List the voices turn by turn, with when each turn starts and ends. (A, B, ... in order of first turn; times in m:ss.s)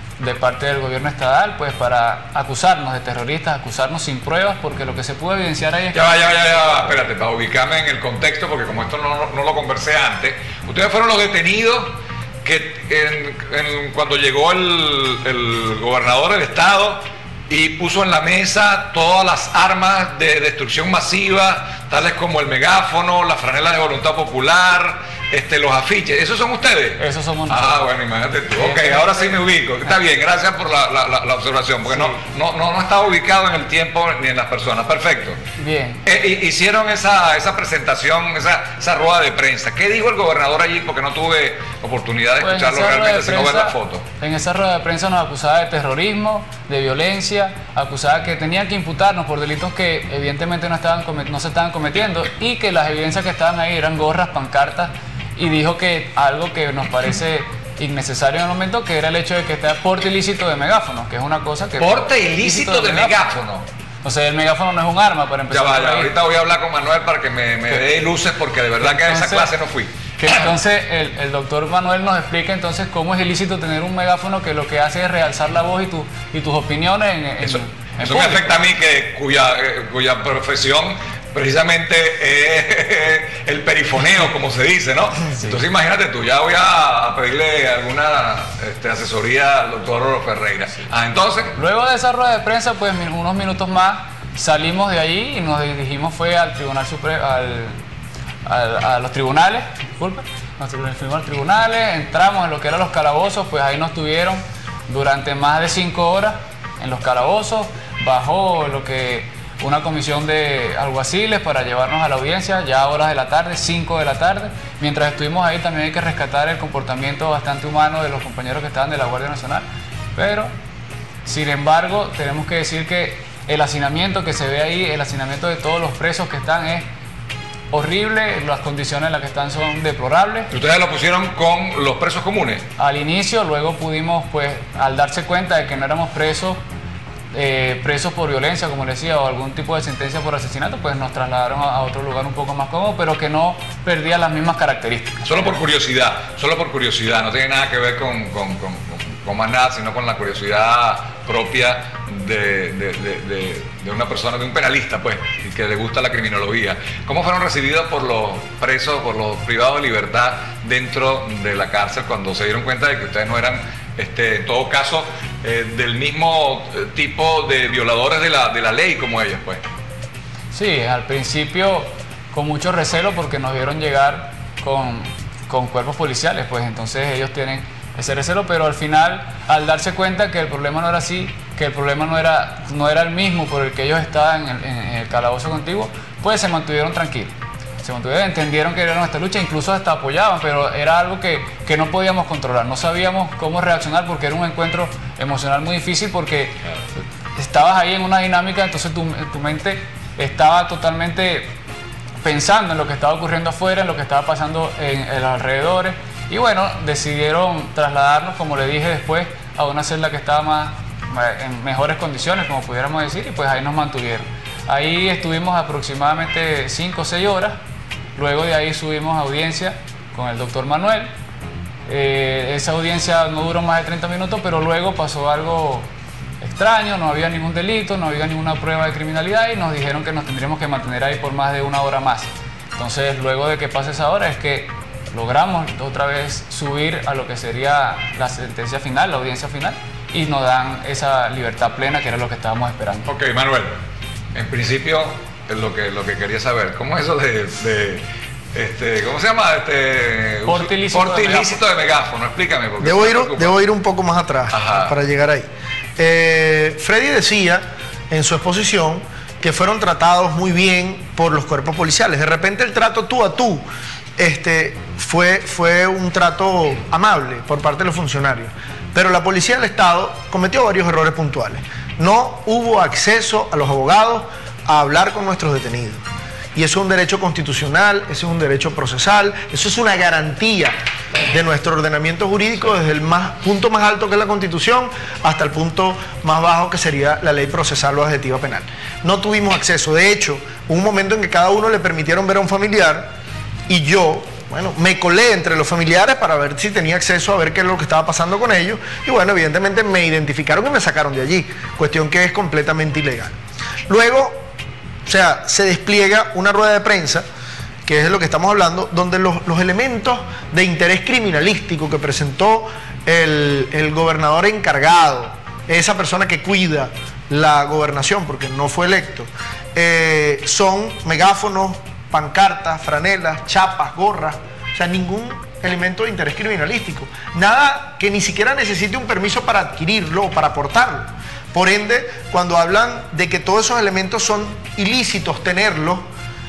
0:00.2-0:06.9 A
0:05.9-0:35.4 B
0:27.0-0:27.9 A
0:28.5-0:29.4 A
0:31.9-0:32.2 A
0:35.6-0:36.0 A
0:36.0-0:44.0 B
0:42.4-1:03.2 A
1:01.8-1:03.6 B
1:04.0-1:06.1 A
1:05.5-1:10.5 B
1:08.8-1:09.5 A
1:10.2-1:18.6 A
1:17.4-1:31.6 B
1:31.6-1:37.8 A
1:38.4-2:00.5 A
2:01.2-2:06.9 A
2:07.7-2:10.5 A
2:10.5-2:12.7 B
2:12.8-2:16.6 A
2:17.3-2:25.5 A
2:25.2-2:49.6 B
2:50.5-3:16.6 A
3:17.4-3:21.5 A
3:22.2-3:37.6 A
3:38.2-3:41.1 A
3:41.9-3:45.9 A
3:46.4-4:03.1 A
4:03.0-4:03.8 B
4:04.3-4:13.6 B
4:10.4-4:11.6 A
4:12.8-4:23.6 C
4:14.5-4:14.9 B
4:24.2-4:36.0 C
4:36.5-4:40.8 C
4:41.3-4:53.1 C
4:53.7-5:03.4 C
5:03.9-5:04.4 C
5:05.0-5:07.2 C
5:07.8-5:36.0 C